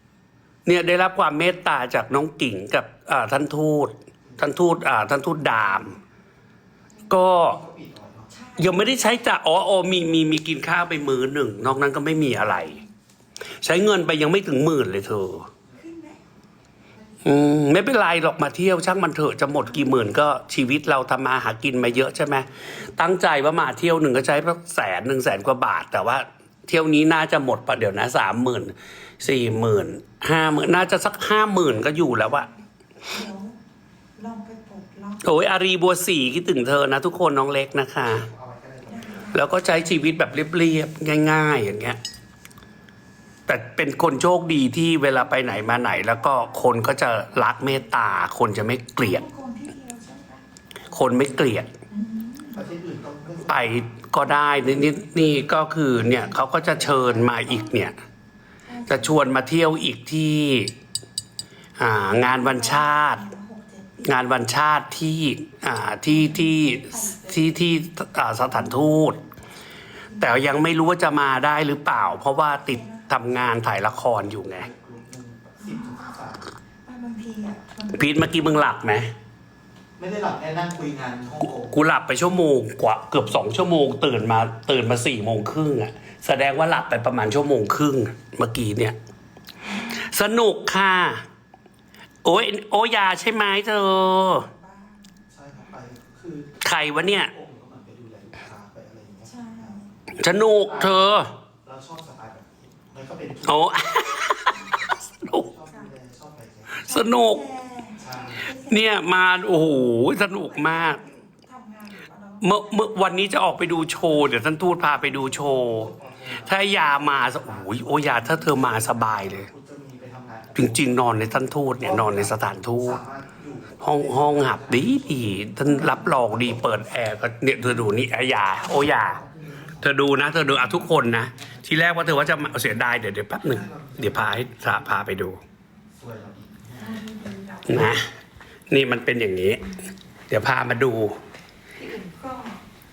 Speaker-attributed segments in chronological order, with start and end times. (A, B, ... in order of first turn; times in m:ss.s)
0:00.6-0:06.0 A
0:07.1-0:07.6 A
0:07.3-0:08.3 B
0:08.3-0:08.9 C
0:08.6-0:12.8 A
0:12.0-0:12.9 C
0:13.6-0:15.5 A
0:15.8-0:16.2 C
0:17.2-0:32.5 A
0:32.0-0:33.6 C
0:34.2-0:35.3 C
0:35.2-0:38.3 A
0:38.1-0:39.2 B
0:38.8-0:39.5 C
0:39.3-0:42.0 A
0:43.5-0:49.2 A
0:45.5-0:48.0 C
0:49.0-0:50.5 C
0:50.9-0:51.7 A
0:51.9-0:52.6 C
0:52.5-0:57.6 B
0:53.4-0:57.9 A
0:58.6-0:59.2 C
0:58.9-1:00.7 A
1:01.8-1:03.2 A
1:02.1-1:04.1 C
1:04.0-1:09.2 A
1:06.0-1:07.6 C
1:10.1-1:10.6 C
1:10.2-1:14.7 A
1:11.7-1:13.1 C
1:14.3-1:16.4 B
1:15.6-1:16.1 C
1:16.8-1:18.7 C
1:18.0-1:19.1 A
1:20.0-1:21.8 B
1:21.6-1:29.0 A
1:29.6-1:30.1 C
1:29.9-1:31.2 A
1:32.2-1:34.5 A
1:34.1-1:35.2 C
1:35.3-1:39.7 B
1:36.6-1:37.3 A
1:39.2-1:39.9 C
1:40.2-1:41.3 A
1:40.6-1:44.1 B
1:43.4-1:45.5 A
1:44.5-1:44.8 C
1:45.2-1:46.8 B
1:46.8-1:47.4 A
1:46.8-1:54.6 C
1:48.0-1:48.5 B
1:48.7-1:51.0 A
1:52.4-1:59.5 A
1:54.9-2:00.9 B
2:00.5-2:03.0 A
2:01.8-2:06.8 B
2:03.8-2:09.2 A
2:07.6-2:12.8 B
2:09.8-2:15.4 A
2:13.4-2:14.9 B
2:15.9-2:17.0 B
2:16.8-2:18.1 C
2:17.7-2:18.0 A
2:18.7-2:19.7 A
2:20.3-2:21.2 A
2:21.8-2:22.6 C